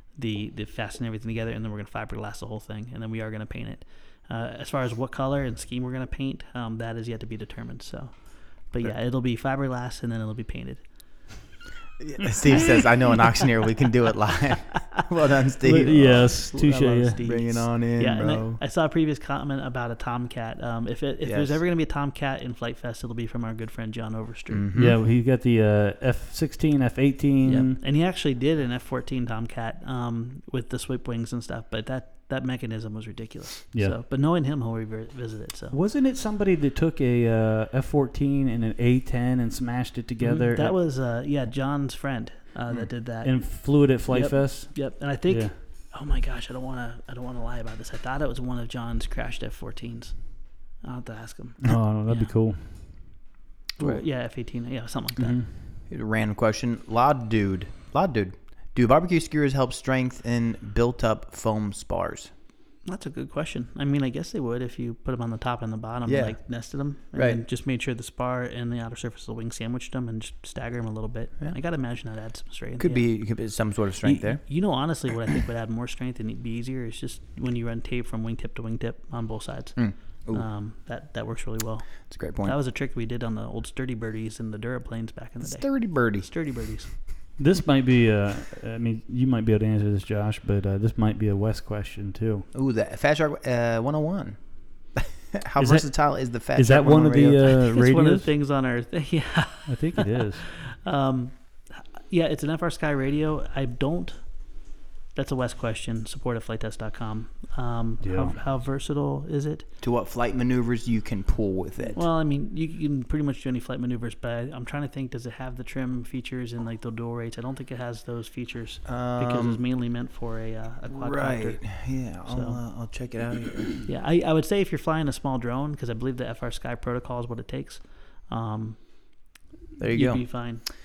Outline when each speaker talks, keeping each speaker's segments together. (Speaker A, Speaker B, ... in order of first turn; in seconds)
Speaker A: 0.2-8.2, 8.7-10.8, 12.5-12.8, 15.6-24.7, 27.4-35.8, 40.2-52.3, 53.8-55.4, 62.9-73.1, 74.0-86.9, 97.5-101.3, 102.1-104.2, 105.2-109.7, 112.0-122.6, 123.9-128.8, 129.9-130.7
Speaker B: 12.0-16.3, 17.2-18.6, 21.2-21.6, 24.5-25.0, 55.9-62.3, 66.1-66.4, 67.1-67.4, 72.8-74.4, 79.8-80.5, 82.1-82.6, 85.4-86.3, 92.5-94.4, 95.0-97.5, 109.8-112.0, 118.9-119.6, 120.9-123.9, 129.8-130.3
Speaker C: 15.8-17.2, 24.7-27.8, 35.7-40.8, 43.2-45.5, 51.6-52.6, 55.2-55.5, 87.4-92.5, 95.6-96.0, 96.5-98.3, 99.7-100.4, 108.0-108.4